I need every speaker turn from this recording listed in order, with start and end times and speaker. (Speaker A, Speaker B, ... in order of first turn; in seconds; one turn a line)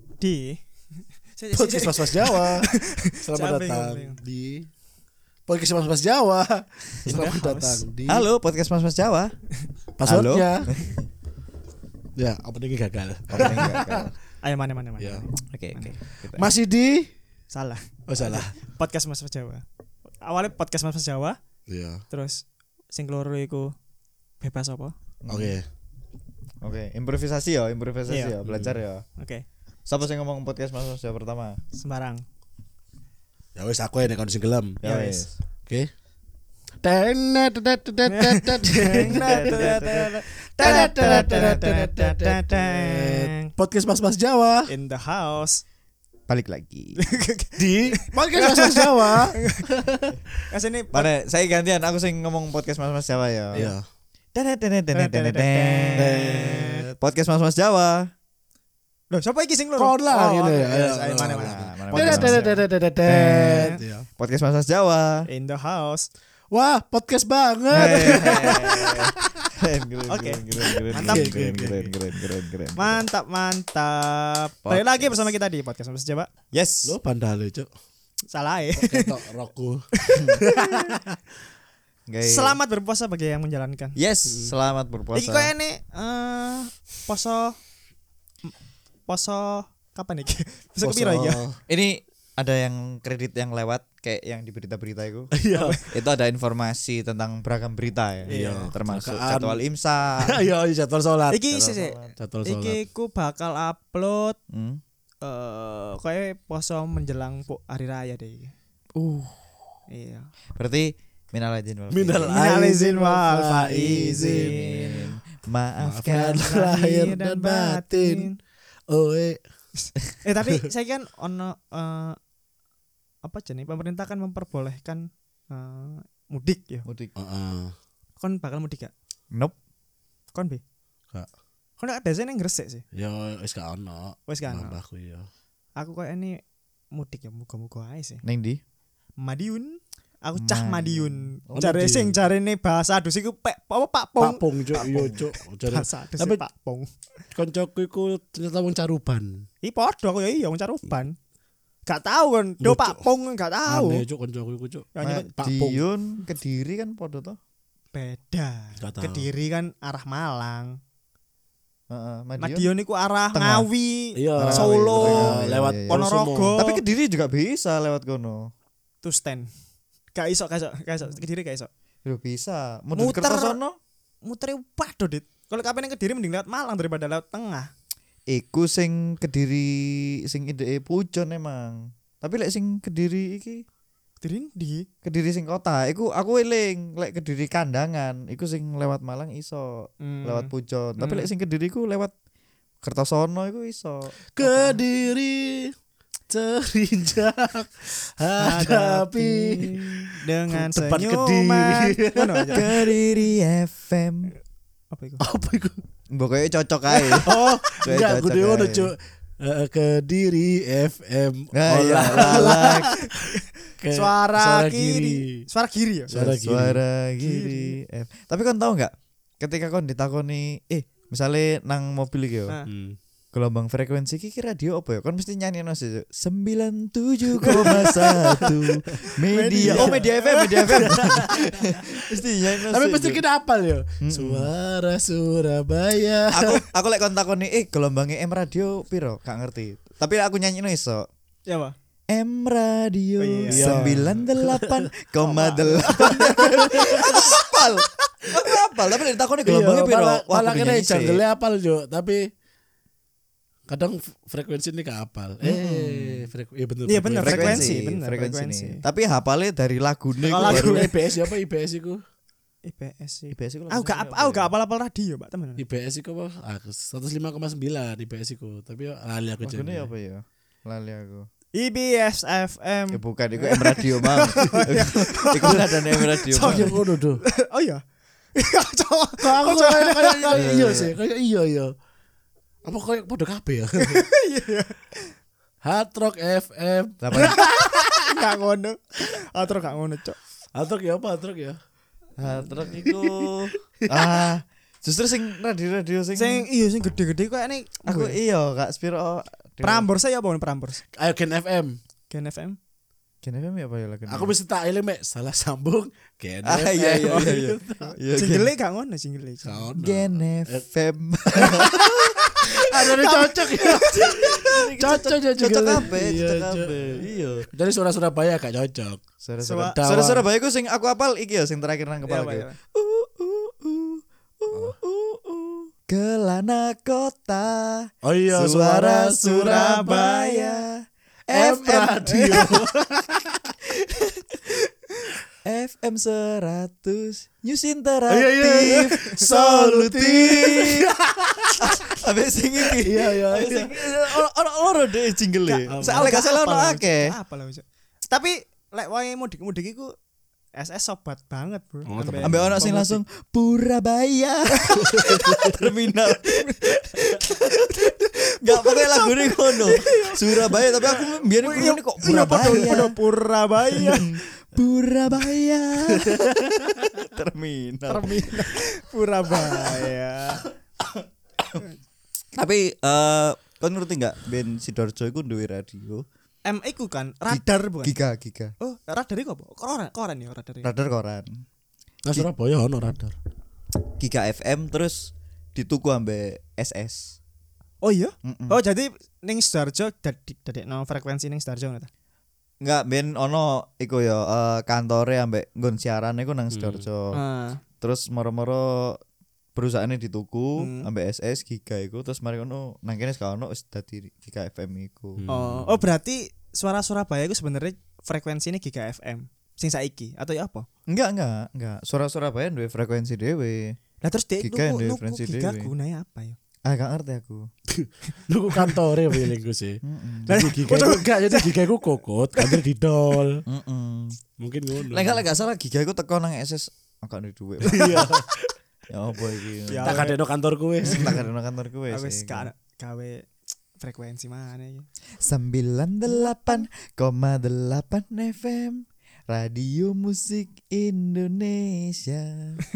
Speaker A: 0.2-0.6
Speaker A: 1.4-4.2
Speaker B: 1.6-4.7
Speaker B: 5.5-8.2
Speaker A: 7.1-7.8
Speaker C: 8.1-9.3
Speaker B: 10.0-10.7
Speaker C: 10.0-11.1
Speaker B: 12.2-14.1
Speaker C: 13.3-14.1
Speaker A: 14.4-15.9
Speaker B: 15.0-15.2
Speaker C: 15.4-16.4
Speaker B: 16.3-17.1
Speaker A: 17.5-19.6
Speaker B: 18.1-18.5
Speaker A: 20.2-21.4
Speaker B: 21.7-22.0
Speaker A: 22.1-23.7
Speaker A: 24.4-24.9
Speaker C: 25.2-25.6
Speaker B: 25.3-25.6
Speaker C: 26.6-29.0
Speaker A: 28.1-28.3
Speaker B: 28.5-28.8
Speaker A: 29.2-29.4
Speaker C: 29.9-31.6
Speaker A: 31.7-32.2
Speaker B: 33.5-34.8
Speaker C: 34.8-35.3
Speaker A: 34.8-35.3
Speaker B: 36.8-39.8
Speaker A: 38.1-43.5
Speaker C: 39.0-41.5
Speaker B: 40.6-44.7
Speaker A: 44.7-45.6
Speaker C: 46.3-47.0
Speaker A: 47.0-49.7
Speaker B: 47.6-50.2
Speaker A: 50.5-51.1
Speaker C: 50.9-53.7
Speaker B: 53.5-53.8
Speaker C: 54.3-58.1
Speaker A: 54.9-56.9
Speaker B: 56.0-56.9
Speaker A: 59.1-62.4
Speaker B: 59.8-64.1
Speaker C: 61.2-65.3
Speaker A: 63.5-63.8
Speaker A: 65.3-66.1
Speaker B: 66.5-69.5
Speaker C: 67.7-73.0
Speaker A: 67.7-68.9
Speaker A: 70.1-71.3
Speaker B: 70.9-71.9
Speaker A: 72.8-76.3
Speaker C: 74.7-75.2
Speaker C: 76.5-76.9
Speaker B: 76.8-77.7
Speaker A: 78.3-79.2
Speaker B: 78.8-79.9
Speaker A: 80.0-81.0
Speaker B: 80.4-81.2
Speaker C: 82.1-82.6
Speaker A: 82.2-84.0
Speaker C: 84.0-85.5
Speaker B: 84.2-84.5
Speaker A: 85.1-87.6
Speaker A: 89.1-91.4
Speaker B: 90.8-91.6
Speaker C: 91.7-95.3
Speaker B: 95.3-95.8
Speaker A: 95.5-95.8
Speaker C: 95.8-100.5
Speaker A: 98.3-98.7
Speaker B: 98.3-99.6
Speaker B: 100.2-101.4
Speaker A: 101.3-104.4
Speaker C: 101.5-102.1
Speaker B: 102.2-102.8
Speaker C: 104.5-104.8
Speaker A: 105.2-108.5
Speaker C: 109.0-109.4
Speaker A: 109.9-110.3
Speaker C: 110.5-112.3
Speaker B: 111.9-115.1
Speaker A: 112.2-114.9
Speaker C: 113.7-116.4
Speaker B: 115.8-118.3
Speaker A: 116.4-118.4
Speaker B: 118.9-119.4
Speaker A: 119.8-122.2
Speaker A: 123.2-126.9
Speaker C: 126.8-127.1
Speaker B: 127.1-127.7
Speaker A: 128.2-128.9
Speaker A: 130.3-130.6
Speaker A: 131.8-132.8
Speaker B: 132.9-135.3
Speaker A: 134.3-134.8
Speaker A: 135.8-136.4
Speaker A: 136.9-138.2
Speaker C: 138.2-138.6
Speaker A: 139.2-145.1
Speaker C: 140.4-141.7
Speaker B: 141.6-142.2
Speaker B: 144.2-146.4
Speaker C: 144.8-145.2
Speaker A: 145.7-146.9
Speaker B: 147.3-149.4
Speaker A: 149.6-151.1
Speaker A: 151.9-154.0
Speaker B: 152.6-153.1
Speaker B: 153.7-155.8
Speaker A: 154.9-155.3
Speaker C: 155.0-157.4
Speaker A: 157.9-160.8
Speaker B: 158.8-159.2
Speaker C: 161.9-162.7
Speaker A: 162.4-166.8
Speaker C: 163.3-163.7
Speaker B: 164.2-166.6
Speaker C: 164.4-168.5
Speaker A: 169.0-169.5
Speaker A: 170.1-171.7
Speaker C: 172.0-173.8
Speaker A: 172.9-173.6
Speaker A: 174.2-177.7
Speaker C: 178.3-183.6
Speaker A: 184.2-184.8
Speaker C: 185.0-192.1
Speaker A: 190.0-191.3
Speaker C: 192.8-194.8
Speaker B: 194.3-195.7
Speaker B: 196.3-202.7
Speaker A: 198.4-202.7
Speaker C: 202.5-204.3
Speaker A: 204.9-205.2
Speaker B: 205.2-205.8
Speaker C: 206.1-208.9
Speaker B: 207.1-213.3
Speaker C: 211.5-212.9
Speaker A: 212.1-216.2
Speaker B: 213.8-215.4
Speaker B: 216.1-216.8
Speaker C: 216.1-222.5
Speaker A: 217.2-217.8
Speaker B: 222.7-223.0
Speaker C: 223.3-233.2
Speaker B: 227.4-228.6
Speaker A: 227.4-228.4
Speaker A: 229.3-231.5
Speaker B: 229.6-230.0
Speaker B: 230.7-232.2
Speaker B: 232.7-236.6
Speaker C: 234.0-234.5
Speaker C: 236.3-241.0
Speaker A: 241.5-241.7
Speaker C: 242.1-251.2
Speaker A: 243.2-244.0
Speaker B: 243.5-244.9
Speaker A: 245.2-247.6
Speaker B: 246.1-247.0
Speaker B: 249.4-252.3
Speaker B: 253.7-257.7
Speaker C: 255.4-256.3
Speaker A: 256.9-258.8
Speaker C: 257.2-260.9
Speaker B: 260.3-262.0
Speaker A: 260.3-261.3
Speaker A: 262.6-265.6
Speaker C: 263.3-264.5
Speaker B: 265.6-269.9
Speaker C: 269.4-271.3
Speaker A: 271.5-277.8
Speaker C: 272.9-276.7
Speaker B: 276.3-277.2
Speaker A: 278.4-280.6
Speaker B: 279.2-281.7
Speaker C: 280.3-280.9
Speaker B: 282.6-284.1
Speaker A: 283.8-284.8
Speaker B: 285.6-288.1
Speaker C: 287.0-287.4
Speaker A: 287.2-290.2
Speaker B: 290.5-291.6
Speaker C: 292.2-296.5
Speaker B: 292.7-293.3
Speaker B: 293.9-294.3
Speaker A: 296.1-298.1
Speaker C: 297.9-299.9
Speaker A: 299.6-300.8
Speaker B: 300.9-301.8
Speaker A: 302.1-302.6
Speaker C: 303.2-304.3
Speaker B: 304.1-307.9
Speaker C: 306.4-308.5
Speaker A: 307.1-309.5
Speaker B: 309.4-310.6
Speaker C: 309.7-312.2
Speaker B: 311.3-319.0
Speaker A: 312.8-314.4
Speaker C: 313.7-317.5
Speaker C: 319.2-332.7
Speaker A: 319.4-319.8
Speaker B: 319.8-320.2
Speaker A: 322.1-322.6
Speaker B: 328.0-329.9
Speaker A: 329.4-330.6
Speaker B: 331.3-333.6
Speaker C: 333.8-334.5
Speaker C: 335.4-340.9
Speaker B: 338.1-341.8
Speaker C: 341.6-347.1
Speaker B: 342.8-344.2
Speaker A: 345.4-349.9
Speaker B: 345.7-346.1
Speaker A: 350.6-353.0
Speaker B: 351.9-352.6
Speaker C: 352.1-363.0
Speaker A: 354.6-355.4
Speaker B: 354.9-355.6
Speaker A: 356.4-364.2
Speaker C: 363.7-368.2
Speaker B: 366.0-366.9
Speaker A: 367.9-370.4
Speaker C: 369.4-369.8
Speaker C: 372.3-376.0
Speaker A: 376.4-377.9
Speaker C: 377.3-378.5
Speaker A: 378.6-380.7
Speaker C: 380.6-381.4
Speaker B: 382.0-383.1
Speaker C: 384.0-387.2
Speaker A: 387.8-391.9
Speaker C: 388.2-388.6
Speaker C: 392.6-397.2
Speaker B: 396.5-396.9
Speaker A: 397.1-397.6
Speaker C: 397.8-399.0
Speaker C: 399.6-405.2
Speaker A: 400.6-400.9
Speaker B: 405.2-405.8
Speaker A: 405.3-410.6
Speaker C: 410.9-413.8
Speaker A: 414.0-416.4
Speaker C: 414.4-415.7
Speaker C: 416.6-417.5
Speaker B: 417.7-423.4
Speaker A: 418.5-419.2
Speaker C: 419.8-420.5
Speaker A: 420.3-421.5
Speaker C: 423.4-424.2
Speaker B: 424.4-425.2
Speaker C: 424.9-428.1
Speaker B: 427.6-428.5
Speaker C: 428.9-430.1
Speaker A: 429.7-430.2
Speaker B: 429.8-431.2
Speaker C: 430.8-432.5
Speaker A: 430.8-431.2
Speaker A: 431.9-433.3
Speaker A: 433.8-434.9
Speaker C: 435.2-442.6
Speaker A: 436.1-436.6